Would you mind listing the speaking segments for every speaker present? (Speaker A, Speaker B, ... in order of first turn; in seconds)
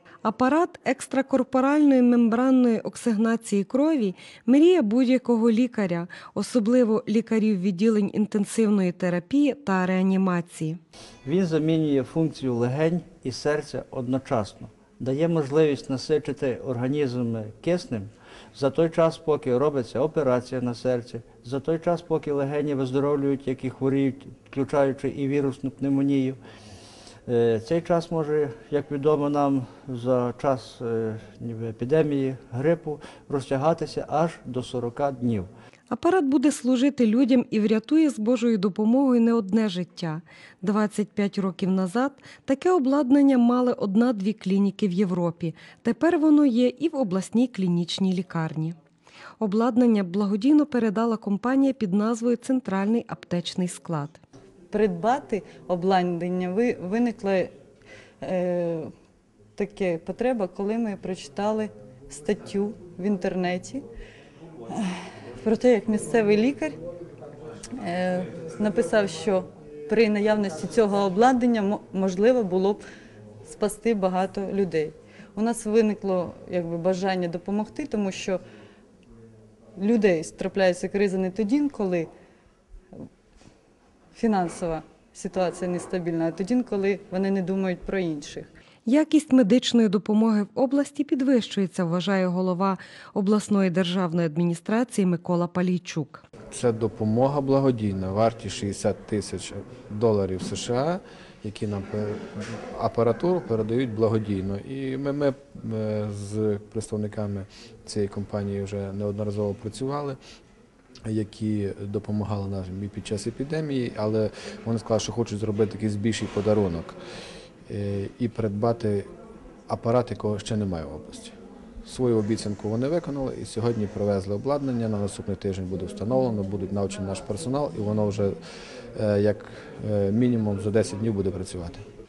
Speaker A: 0.2-10.8, 35.9-48.8, 49.4-54.2, 88.8-96.2
Speaker B: 11.2-26.4, 27.3-35.5
Speaker C: 54.7-57.5, 58.2-58.9, 59.5-63.8, 64.7-66.8, 67.8-72.8, 73.4-78.4, 79.8-82.1, 84.1-88.5
Speaker D: 96.5-110.2, 111.0-117.0, 117.7-119.1, 119.7-128.3, 128.9-131.8